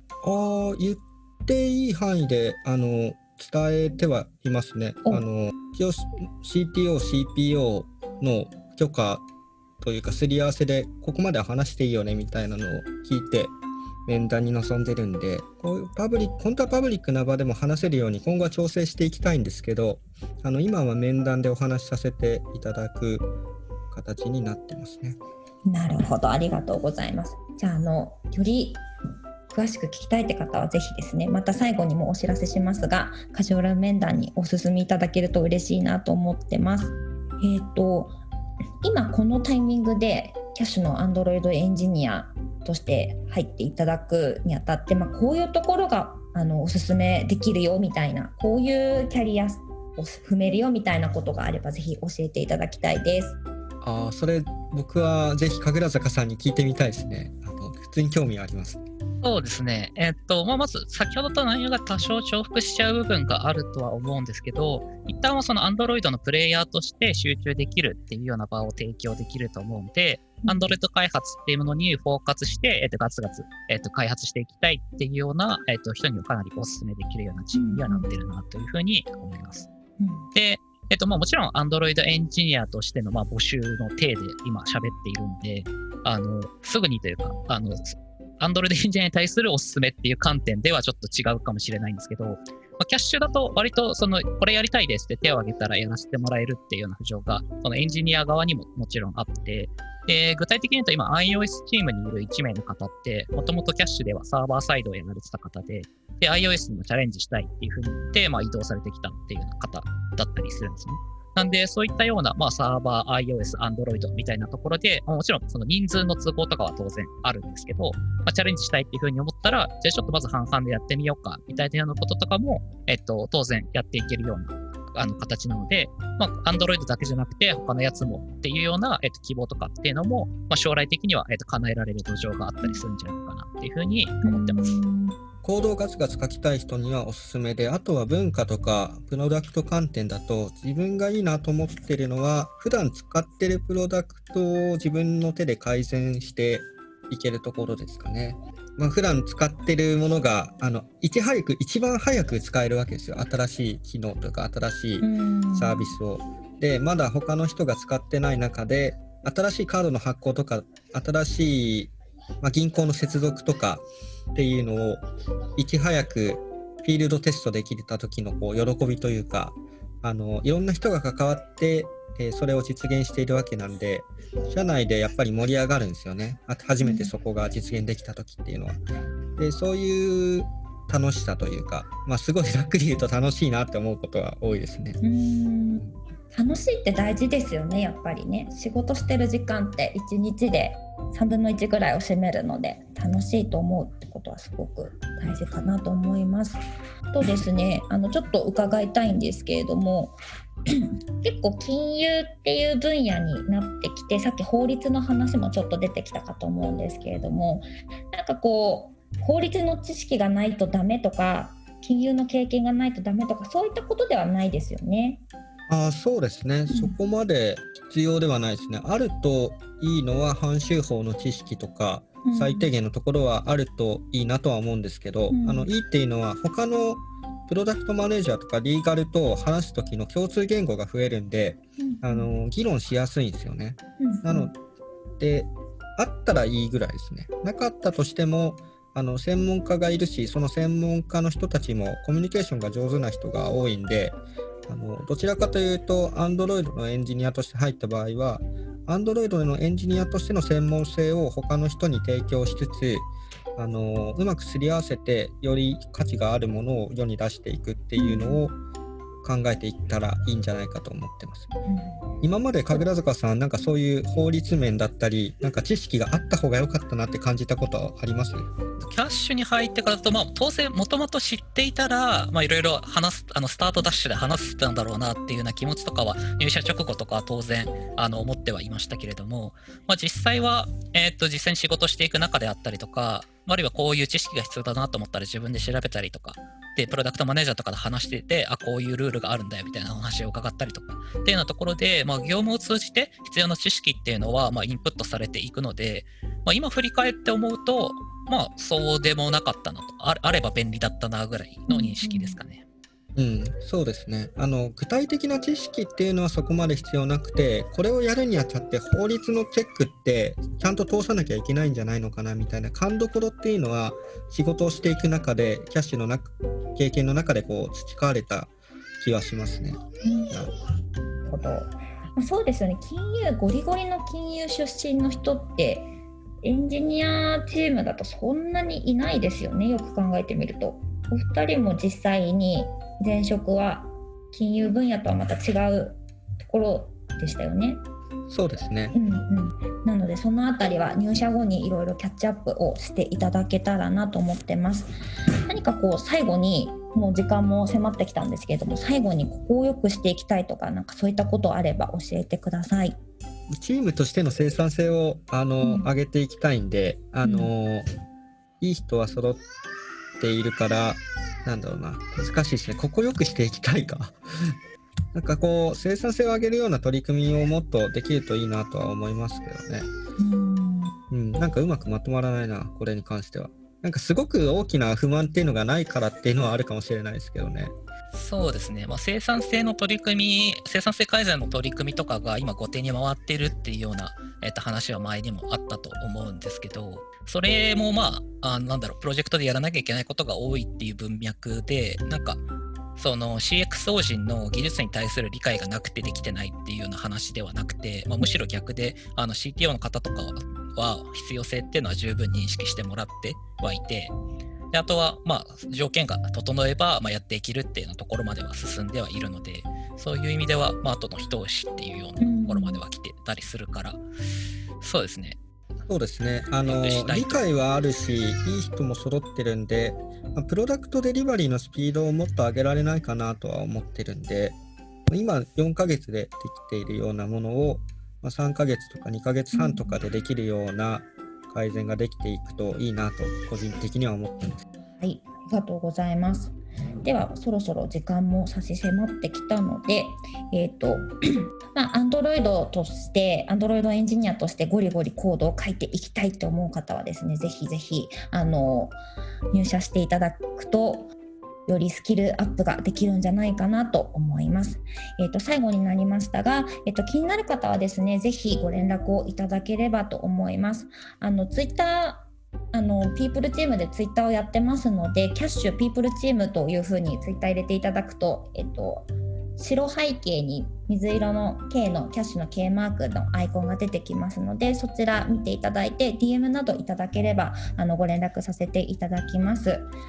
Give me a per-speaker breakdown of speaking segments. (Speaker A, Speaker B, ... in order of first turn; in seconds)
Speaker A: 0.2-9.2, 9.8-13.5, 14.1-23.3, 23.9-25.2, 53.8-58.8, 135.4-165.0, 165.6-178.8, 179.4-185.0, 215.7-234.5, 235.2-258.5, 259.2-261.5, 262.2-268.5, 303.1-320.5, 338.3-338.9, 353.5-357.9, 358.6-359.4, 360.2-364.5, 365.1-369.9, 371.1-377.7, 415.9-424.6, 425.1-434.6
Speaker B: 25.6-28.8, 29.5-38.1, 38.8-53.4, 70.5-70.7, 77.5-78.1, 80.0-80.3, 134.2-135.2, 155.0-155.9, 176.8-177.1, 185.0-196.6, 197.1-200.2, 200.7-215.2, 216.7-216.9, 222.2-222.7, 225.3-225.7, 231.8-232.3, 234.0-234.5, 258.0-258.4, 261.7-262.0, 301.7-302.4, 320.0-320.3, 321.2-325.9, 326.4-337.8, 338.9-344.9, 345.5-353.0, 355.6-355.9, 357.2-357.5, 370.2-371.0, 412.2-412.8, 429.5-430.0, 435.0-441.1, 441.7-449.0, 449.5-451.1, 451.6-479.9
Speaker C: 59.2-79.7, 80.3-134.6, 268.8-302.6, 378.1-392.4, 393.0-404.1, 404.7-414.0, 414.8-415.4, 416.6-417.4